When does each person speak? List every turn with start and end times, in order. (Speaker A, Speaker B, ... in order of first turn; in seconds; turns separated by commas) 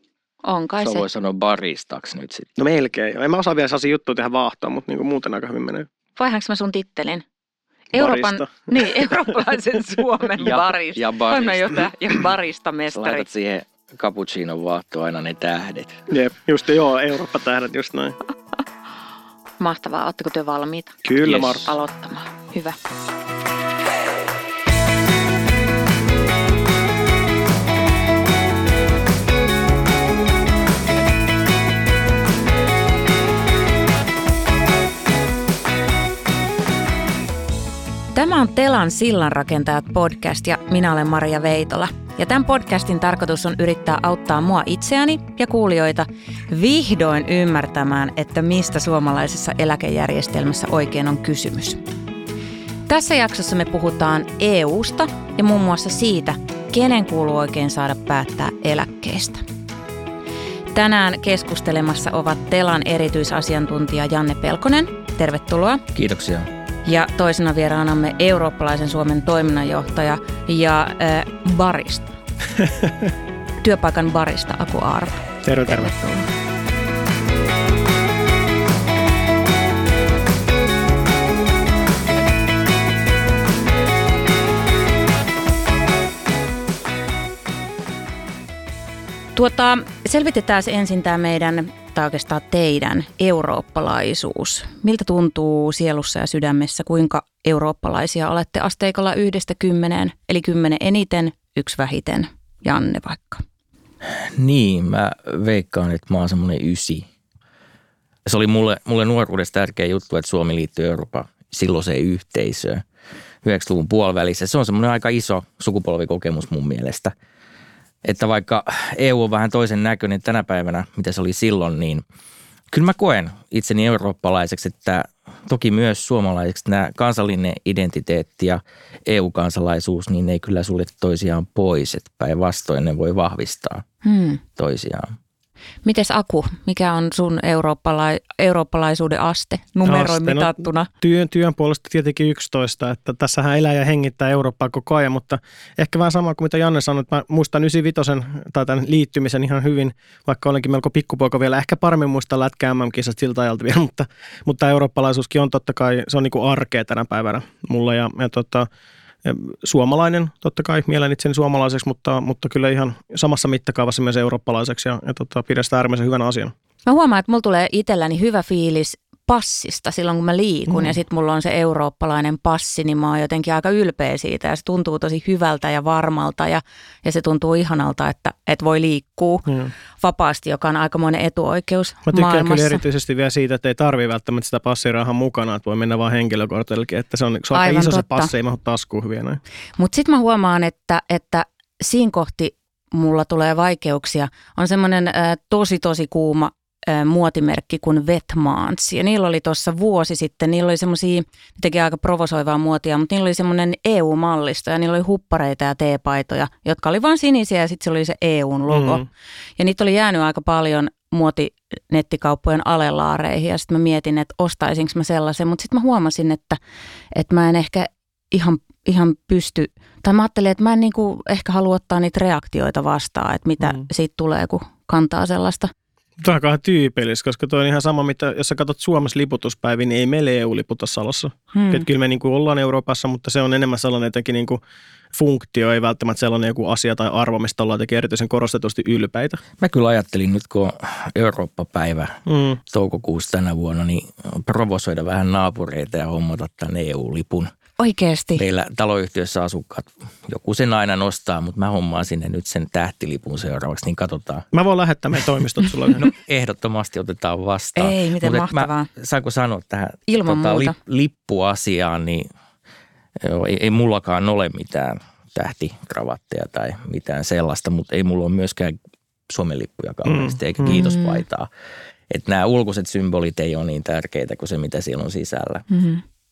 Speaker A: 0.4-1.1, Speaker B: 0.8-2.5, Speaker C: 2.6-5.9, Speaker A: 6.2-7.2, Speaker A: 7.9-13.2, Speaker C: 7.9-9.2, Speaker B: 10.4-11.9, Speaker B: 12.9-16.1, Speaker C: 16.1-18.1, Speaker A: 19.6-22.8, Speaker C: 21.0-21.7, Speaker B: 21.2-21.6, Speaker A: 38.1-51.8, Speaker A: 52.9-59.4, Speaker A: 60.7-65.8, Speaker B: 65.9-66.5, Speaker A: 66.8-72.2, Speaker C: 72.6-73.1, Speaker A: 73.6-76.3, Speaker C: 75.4-76.0, Speaker A: 89.3-103.4, Speaker B: 104.0-107.1, Speaker B: 108.2-112.8, Speaker B: 113.4-117.1, Speaker B: 118.0-122.0, Speaker B: 122.7-133.8, Speaker A: 134.0-134.4, Speaker B: 134.6-135.1, Speaker A: 135.8-140.9, Speaker C: 139.8-158.7, Speaker C: 159.2-166.5, Speaker A: 166.8-179.4, Speaker C: 170.7-170.9, Speaker C: 179.5-179.7, Speaker A: 180.0-182.8, Speaker C: 182.1-189.4, Speaker A: 187.5-188.3, Speaker A: 189.8-209.0, Speaker C: 208.7-209.0, Speaker A: 209.6-216.6, Speaker A: 217.1-225.7, Speaker C: 226.2-234.6, Speaker A: 231.5-231.8, Speaker C: 235.1-239.4, Speaker B: 239.6-247.5, Speaker C: 242.3-242.6, Speaker A: 247.8-248.4, Speaker B: 248.4-254.5, Speaker C: 254.5-256.1, Speaker B: 255.9-262.3, Speaker A: 257.8-258.9, Speaker A: 260.1-260.7, Speaker B: 263.2-268.7, Speaker B: 269.3-271.5, Speaker C: 270.1-270.8, Speaker A: 270.6-271.2, Speaker B: 272.1-275.7, Speaker A: 275.7-276.0